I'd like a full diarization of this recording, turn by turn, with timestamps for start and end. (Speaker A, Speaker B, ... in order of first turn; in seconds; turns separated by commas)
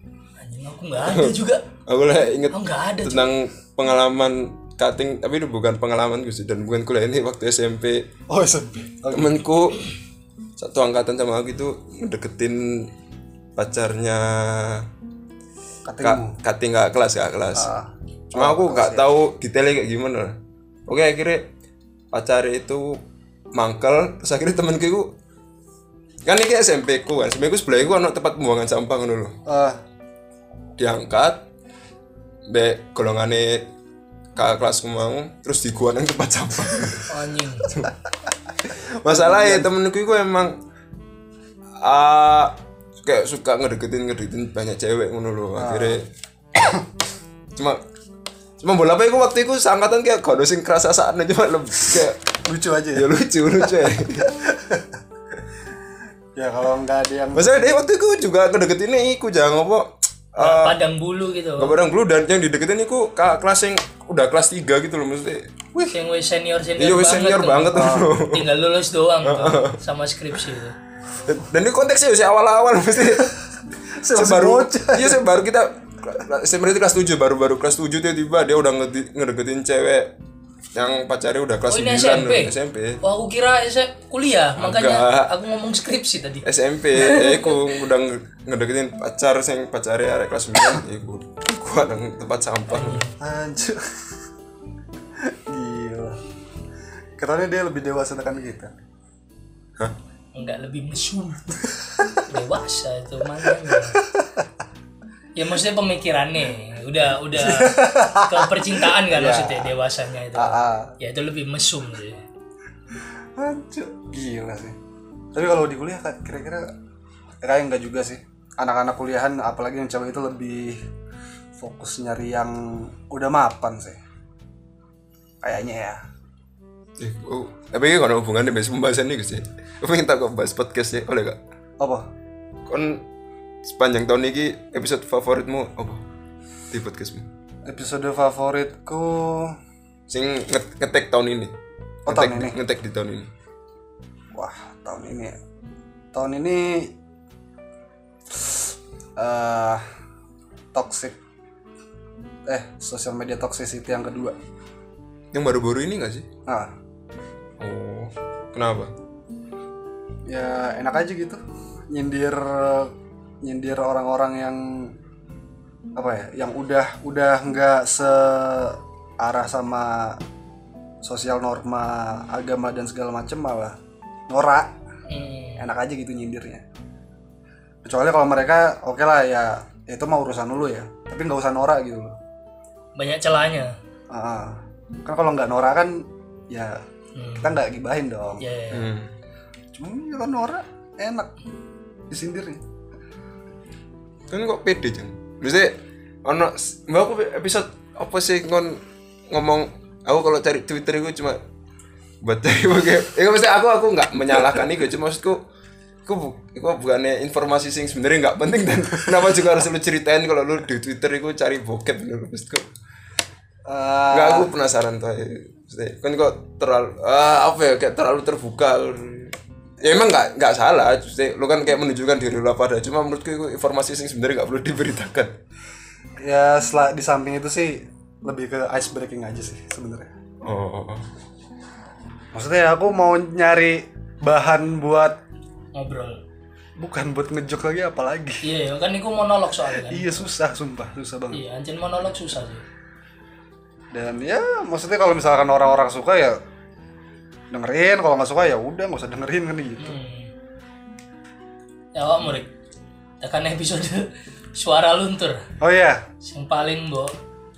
Speaker A: 0.4-1.6, Speaker B: 1.0-1.4, Speaker B: 1.9-8.1, Speaker A: 2.5-3.3, Speaker C: 8.3-9.4, Speaker B: 9.1-9.8, Speaker B: 10.6-12.9, Speaker B: 13.6-14.9, Speaker C: 15.9-16.4, Speaker B: 16.0-17.7, Speaker C: 17.6-19.1, Speaker B: 18.3-20.4, Speaker B: 20.9-21.5, Speaker B: 22.1-23.0, Speaker B: 23.5-25.1, Speaker B: 26.2-29.4, Speaker C: 29.5-29.8, Speaker B: 30.8-31.4, Speaker B: 32.5-33.7, Speaker B: 34.4-37.1, Speaker A: 37.1-37.7, Speaker B: 39.0-40.6, Speaker C: 39.1-39.7, Speaker B: 41.8-46.1, Speaker C: 45.6-46.0, Speaker B: 48.6-52.2, Speaker C: 52.5-53.1, Speaker B: 53.0-54.3, Speaker C: 53.6-54.9, Speaker C: 56.4-57.6, Speaker B: 57.3-60.8, Speaker A: 60.4-61.8, Speaker B: 61.6-65.5, Speaker A: 65.9-70.8, Speaker B: 66.8-68.5, Speaker C: 67.7-68.1, Speaker B: 69.2-69.8, Speaker B: 71.3-73.3, Speaker C: 73.9-75.2, Speaker B: 74.1-80.1, Speaker B: 80.8-83.0, Speaker A: 81.7-87.6, Speaker B: 84.6-85.3, Speaker B: 86.4-93.0, Speaker A: 92.7-93.1, Speaker C: 93.2-93.9, Speaker C: 95.2-96.2, Speaker C: 97.2-98.7, Speaker A: 100.3-101.7, Speaker A: 102.3-104.0, Speaker C: 103.7-104.4, Speaker A: 105.4-112.2, Speaker C: 107.3-109.8, Speaker C: 110.3-110.9, Speaker C: 113.4-114.8, Speaker C: 115.3-116.7, Speaker C: 117.4-120.8, Speaker C: 121.6-124.0, Speaker C: 125.4-126.0, Speaker B: 127.0-131.4, Speaker C: 131.8-132.1, Speaker B: 132.7-133.0, Speaker B: 133.6-136.0, Speaker B: 136.7-137.3, Speaker C: 137.7-139.6, Speaker B: 140.1-141.5, Speaker C: 142.1-142.6, Speaker B: 142.1-143.3, Speaker C: 144.3-145.4, Speaker C: 146.1-146.9, Speaker C: 148.3-148.6, Speaker C: 149.2-149.8, Speaker C: 150.7-151.2, Speaker C: 152.5-154.4, Speaker B: 155.3-156.3, Speaker C: 156.5-156.7, Speaker B: 157.6-158.9, Speaker C: 160.3-161.4, Speaker C: 161.9-164.9, Speaker C: 166.0-170.2, Speaker C: 171.0-173.8, Speaker C: 174.3-174.7, Speaker A: 175.1-175.6, Speaker C: 175.6-176.6, Speaker C: 177.8-182.1, Speaker A: 183.0-183.8, Speaker C: 184.1-186.8, Speaker A: 187.1-187.6, Speaker C: 187.4-188.4, Speaker A: 188.4-188.9, Speaker B: 188.7-189.1, Speaker C: 189.7-191.3, Speaker C: 192.1-192.6, Speaker B: 194.3-201.4, Speaker B: 202.2-205.4, Speaker B: 206.1-212.7, Speaker C: 213.6-214.5, Speaker B: 214.1-225.3, Speaker C: 226.2-230.1, Speaker B: 230.4-231.0, Speaker C: 232.3-235.2, Speaker A: 235.7-236.2, Speaker C: 236.8-238.4, Speaker A: 238.4-240.2, Speaker C: 239.8-241.4, Speaker A: 241.3-242.6, Speaker C: 243.9-246.4, Speaker C: 247.5-250.0, Speaker A: 249.8-250.3, Speaker A: 251.9-252.5, Speaker A: 253.2-255.4, Speaker C: 255.6-256.0, Speaker A: 256.2-257.2